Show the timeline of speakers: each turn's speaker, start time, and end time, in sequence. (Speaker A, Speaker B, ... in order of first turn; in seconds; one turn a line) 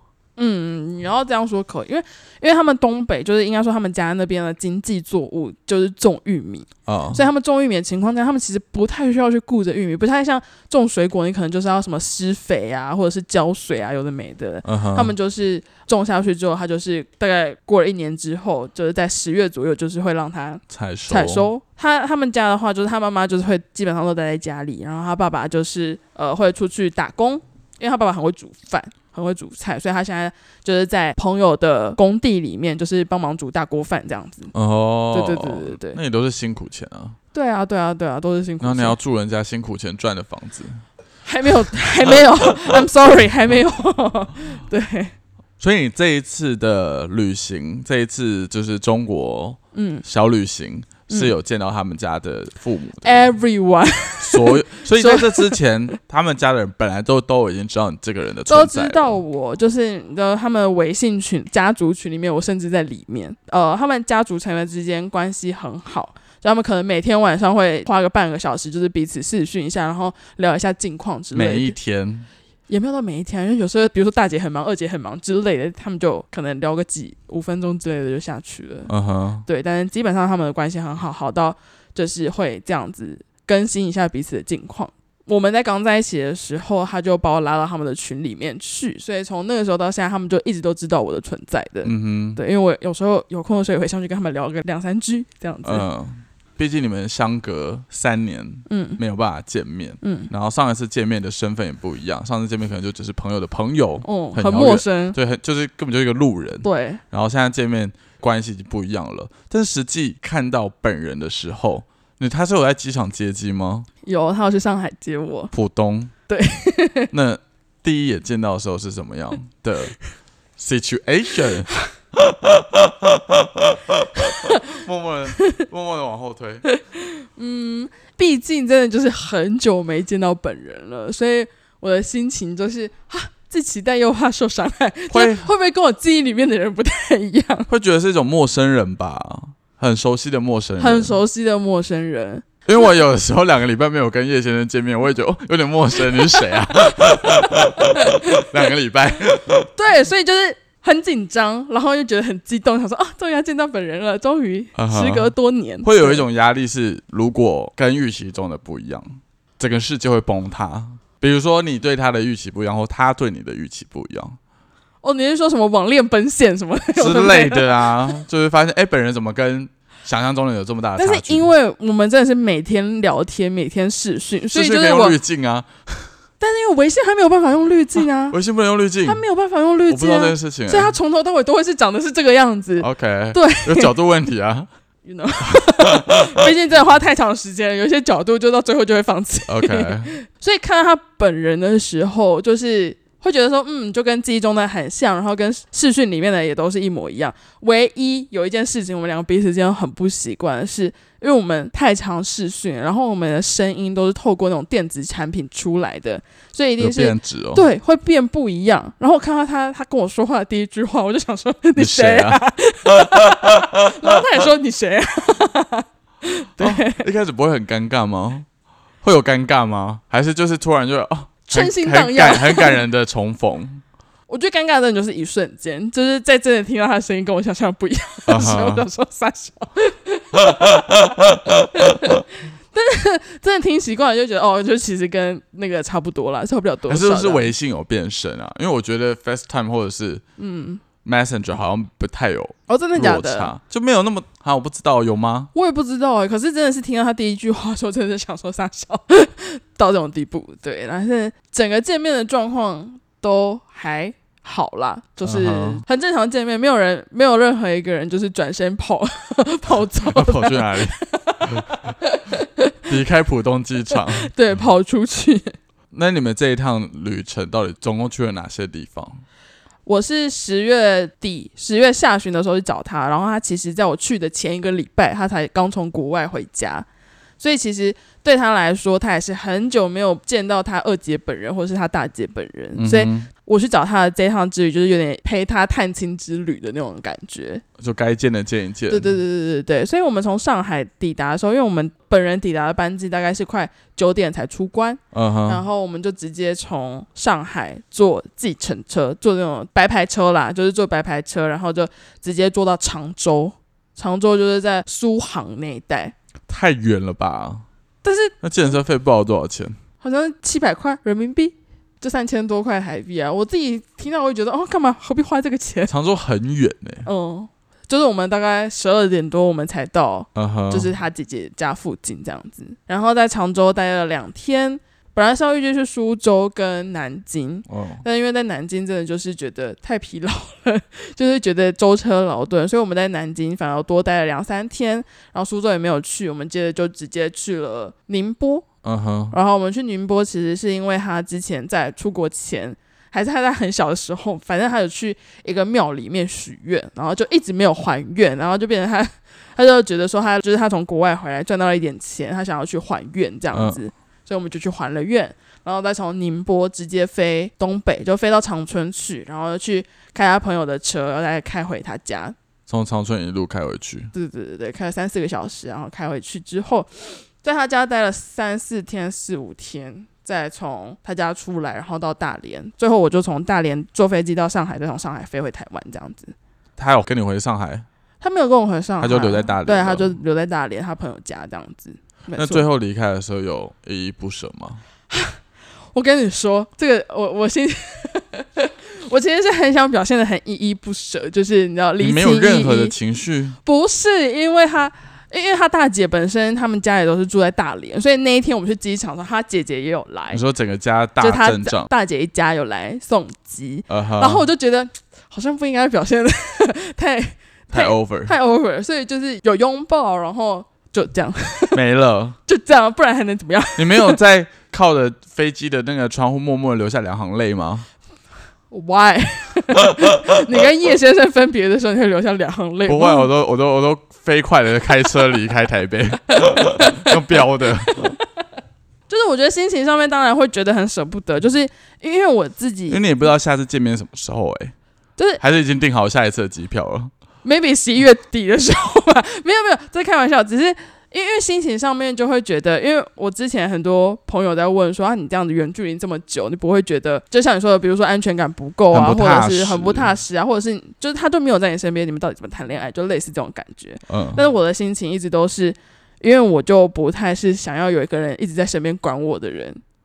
Speaker A: 0.4-34.5
Speaker B: 6.9-7.2
Speaker B: 14.6-15.1
Speaker B: 20.7-21.5
Speaker B: 34.5-37.1
Speaker A: 35.1-36.0
Speaker A: 37.3-39.0
Speaker B: 38.6-40.8
Speaker A: 41.2-45.1
Speaker B: 45.6-53.2
Speaker A: 49.7-50.0
Speaker A: 53.0-55.6
Speaker B: 54.2-59.1
Speaker A: 58.5-71.7
Speaker B: 71.3-72.3
Speaker A: 72.7-78.9
Speaker B: 78.9-79.4
Speaker A: 79.5-95.8
Speaker B: 91.8-92.4
Speaker B: 95.6-113.9
Speaker A: 98.7-99.0
Speaker A: 100.0-100.3
Speaker A: 104.0-105.2
Speaker A: 106.6-107.0
Speaker A: 114.0-115.5
Speaker B: 115.5-116.1
Speaker A: 116.3-117.1
Speaker B: 117.1-120.0
Speaker B: 120.6-121.7
Speaker B: 122.2-126.7
Speaker A: 124.2-124.6
Speaker A: 126.7-137.7
Speaker B: 135.1-135.5
Speaker B: 137.7-141.2
Speaker A: 140.8-142.5
Speaker B: 142.7-149.7
Speaker A: 146.3-148.5
Speaker A: 149.8-156.2
Speaker B: 154.7-164.4
Speaker A: 165.0-167.9
Speaker B: 166.9-171.5
Speaker A: 171.0-175.2
Speaker B: 174.5-176.1
Speaker A: 176.4-178.4
Speaker B: 178.3-179.2
Speaker A: 179.1-183.9
Speaker B: 179.9-180.9
Speaker B: 182.8-184.7
Speaker A: 185.1-217.0
Speaker B: 185.4-186.4
Speaker B: 189.5-190.1
Speaker B: 206.8-207.6
Speaker B: 211.8-212.4
Speaker B: 213.1-213.7
Speaker B: 216.6-218.5
Speaker B: 219.0-223.8
Speaker A: 221.5-222.8
Speaker A: 224.3-230.8
Speaker B: 228.3-228.9
Speaker B: 230.4-232.1
Speaker A: 231.7-237.5
Speaker B: 236.9-240.2
Speaker A: 240.4-240.8
Speaker B: 241.0-245.5
Speaker A: 242.7-243.5
Speaker A: 245.5-262.8
Speaker B: 255.2-255.8
Speaker B: 259.8-261.7
Speaker B: 262.9-264.3
Speaker A: 263.9-265.6
Speaker B: 265.9-269.2
Speaker A: 269.9-276.9
Speaker A: 277.4-287.6
Speaker B: 282.8-283.3
Speaker B: 287.8-289.2
Speaker A: 288.9-306.1
Speaker B: 295.1-295.6
Speaker B: 306.5-307.6
Speaker A: 308.0-308.4
Speaker B: 308.4-309.8
Speaker A: 310.0-315.9
Speaker B: 315.9-317.1
Speaker A: 317.1-338.6
Speaker B: 320.4-320.9
Speaker B: 327.7-328.0
Speaker B: 338.8-339.4
Speaker A: 339.3-362.4
Speaker B: 353.5-353.8
Speaker B: 362.7-364.1
Speaker A: 364.1-376.3
Speaker B: 376.8-377.9
Speaker A: 378.2-382.6
Speaker B: 379.0-380.1
Speaker B: 382.4-384.8
Speaker A: 385.1-385.4
Speaker A: 385.9-392.9
Speaker B: 392.0-393.6
Speaker A: 393.6-400.4
Speaker B: 400.3-401.9
Speaker A: 401.2-411.8
Speaker B: 403.9-404.4
Speaker B: 407.7-408.3
Speaker B: 411.7-412.4
Speaker A: 412.5-414.2
Speaker B: 413.8-417.9
Speaker A: 418.7-423.3
Speaker B: 422.9-428.1
Speaker A: 426.4-428.1
Speaker A: 429.1-433.0
Speaker B: 432.9-434.7
Speaker B: 435.4-437.1
Speaker A: 437.4-459.8
Speaker B: 448.9-450.1
Speaker B: 454.1-454.4